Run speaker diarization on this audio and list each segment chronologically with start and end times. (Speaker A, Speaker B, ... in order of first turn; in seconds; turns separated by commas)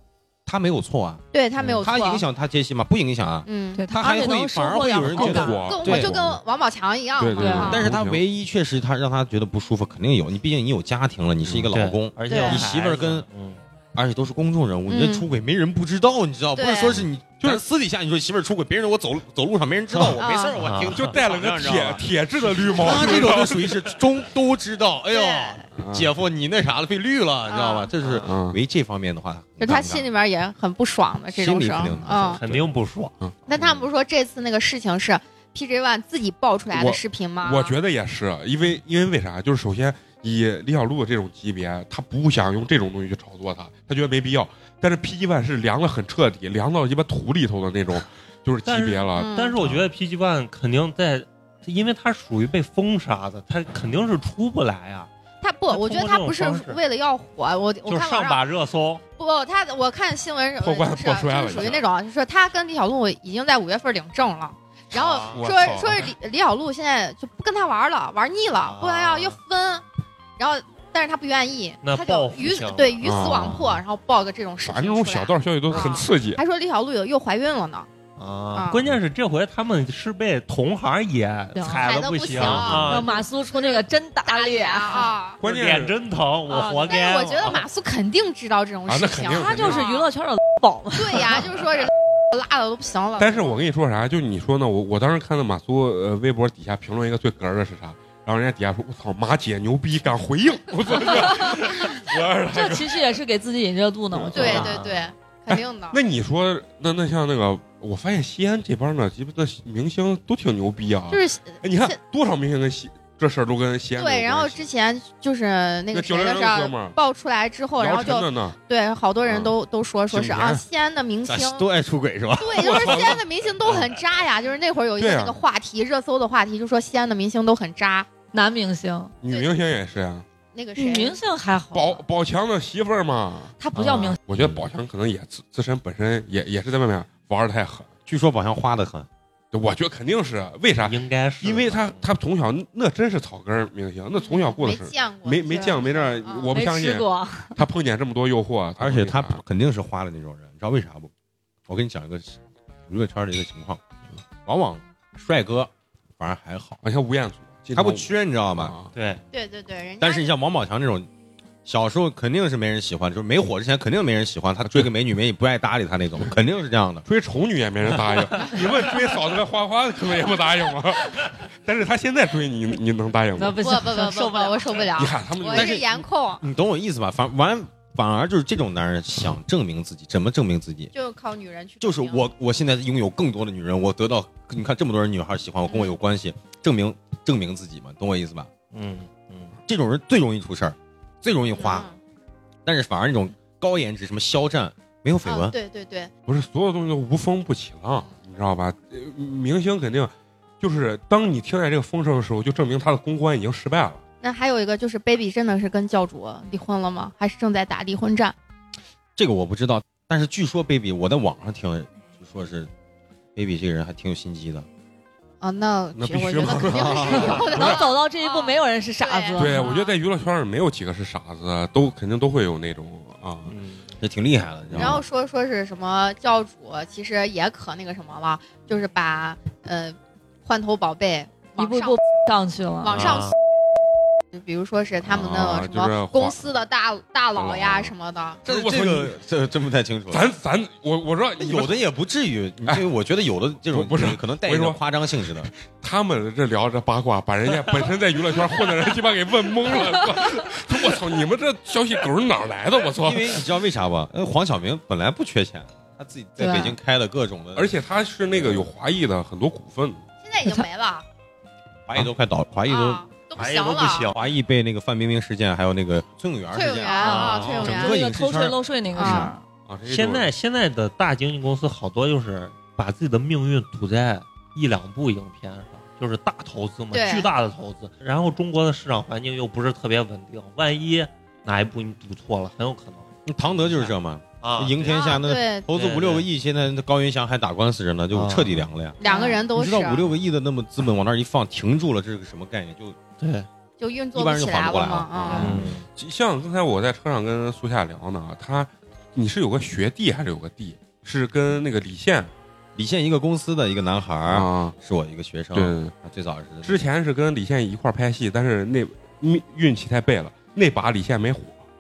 Speaker A: 0.5-6.1, Speaker B: 1.3-2.2, Speaker B: 3.5-3.8, Speaker C: 3.8-5.6, Speaker D: 5.1-6.4, Speaker B: 5.3-7.9, Speaker D: 7.2-8.2, Speaker C: 7.4-7.8, Speaker A: 7.6-13.3, Speaker E: 11.7-13.6, Speaker B: 12.3-12.7, Speaker A: 13.9-30.1, Speaker B: 14.9-15.2, Speaker B: 16.6-17.0, Speaker B: 20.2-20.6, Speaker E: 20.6-21.1, Speaker D: 20.9-23.8, Speaker B: 25.1-25.6, Speaker D: 25.8-26.1, Speaker B: 27.5-27.9, Speaker E: 28.0-28.3, Speaker D: 28.2-28.6, Speaker B: 29.6-32.4, Speaker A: 31.3-32.4, Speaker E: 32.0-33.1, Speaker B: 33.5-37.8, Speaker D: 36.7-49.9, Speaker E: 48.6-55.1, Speaker B: 49.2-49.5, Speaker B: 55.4-58.4, Speaker E: 55.7-56.8, Speaker E: 57.9-59.0, Speaker B: 59.2-69.8, Speaker D: 60.6-61.9, Speaker E: 64.9-65.4, Speaker D: 65.3-66.1, Speaker E: 68.6-69.4, Speaker B: 70.4-77.9, Speaker E: 71.8-73.7, Speaker D: 73.0-73.8, Speaker D: 74.6-76.4, Speaker E: 75.7-76.0, Speaker E: 78.2-83.1, Speaker B: 78.5-78.9, Speaker C: 81.5-81.9, Speaker B: 81.8-85.4, Speaker D: 82.4-82.8, Speaker C: 82.8-85.1, Speaker D: 85.4-86.0, Speaker E: 85.4-87.6, Speaker B: 86.5-90.0, Speaker C: 86.5-87.0, Speaker D: 88.9-89.8, Speaker C: 89.3-91.4, Speaker B: 91.0-93.6, Speaker D: 93.2-103.1, Speaker C: 102.5-104.8, Speaker D: 104.1-104.8, Speaker B: 104.3-106.0, Speaker E: 104.5-105.1, Speaker D: 105.5-114.7, Speaker B: 111.1-112.0, Speaker B: 113.9-121.7, Speaker D: 115.9-117.0, Speaker D: 117.8-118.6, Speaker D: 119.3-119.5, Speaker D: 120.1-120.6, Speaker A: 121.2-123.2, Speaker B: 122.4-128.1, Speaker D: 122.6-123.2, Speaker D: 125.0-125.4, Speaker C: 128.3-129.1, Speaker D: 129.2-130.2, Speaker B: 129.3-129.5, Speaker B: 130.5-131.2, Speaker C: 130.8-132.0, Speaker D: 131.7-133.6, Speaker C: 133.6-134.2, Speaker E: 133.8-134.2, Speaker D: 134.3-137.9, Speaker A: 138.1-139.1, Speaker D: 139.5-149.4, Speaker E: 140.8-142.1, Speaker B: 144.2-146.6, Speaker C: 146.5-147.6, Speaker A: 148.8-151.1, Speaker A: 151.7-153.8, Speaker A: 154.4-156.8, Speaker D: 156.8-158.9, Speaker A: 157.7-158.7, Speaker E: 158.9-159.2, Speaker B: 159.3-160.3, Speaker A: 160.0-161.1, Speaker A: 161.6-167.1, Speaker D: 167.1-173.6, Speaker C: 173.3-174.9, Speaker B: 173.6-176.4, Speaker D: 174.9-175.8, Speaker A: 175.5-180.9, Speaker B: 180.9-182.3, Speaker A: 181.8-188.5, Speaker B: 185.7-185.9, Speaker E: 188.7-189.6, Speaker A: 189.7-191.9, Speaker B: 191.5-192.0, Speaker A: 192.6-195.6, Speaker B: 195.2-196.1, Speaker D: 196.3-204.0, Speaker B: 204.2-208.3, Speaker A: 209.2-212.7, Speaker A: 213.3-214.7, Speaker B: 215.4-219.9, Speaker D: 215.9-217.8, Speaker A: 216.7-217.4, Speaker C: 217.5-219.7, Speaker D: 219.4-223.5, Speaker E: 223.5-223.8, Speaker A: 224.0-225.0, Speaker D: 224.7-225.0, Speaker B: 224.8-232.0, Speaker C: 231.6-233.2, Speaker B: 232.8-233.3, Speaker E: 232.9-233.3, Speaker B: 234.3-238.4, Speaker D: 235.0-236.4, Speaker D: 237.3-237.9, Speaker D: 238.4-239.1, Speaker A: 238.4-240.3, Speaker D: 240.1-241.8, Speaker A: 241.4-245.5, Speaker D: 243.7-244.8, Speaker D: 245.7-253.4, Speaker A: 253.0-257.7, Speaker C: 256.4-256.7, Speaker D: 257.5-260.0, Speaker A: 258.3-258.7, Speaker B: 260.2-261.0, Speaker A: 261.9-263.0, Speaker B: 262.7-264.1, Speaker E: 263.4-264.2, Speaker A: 264.0-269.3, Speaker B: 266.5-268.0, Speaker E: 267.0-267.8, Speaker C: 267.1-269.4, Speaker B: 268.9-269.3, Speaker D: 269.7-270.3, Speaker E: 269.9-283.1, Speaker B: 276.9-277.3, Speaker A: 283.3-293.0, Speaker E: 283.6-286.3, Speaker B: 284.8-285.7, Speaker E: 288.1-288.7, Speaker B: 289.0-290.1, Speaker C: 289.0-289.4, Speaker E: 293.2-293.5, Speaker B: 293.8-295.6, Speaker A: 294.1-295.7, Speaker D: 295.1-302.3, Speaker E: 295.3-295.9, Speaker A: 302.8-306.8, Speaker D: 304.3-304.7, Speaker D: 305.5-305.9, Speaker D: 306.6-311.6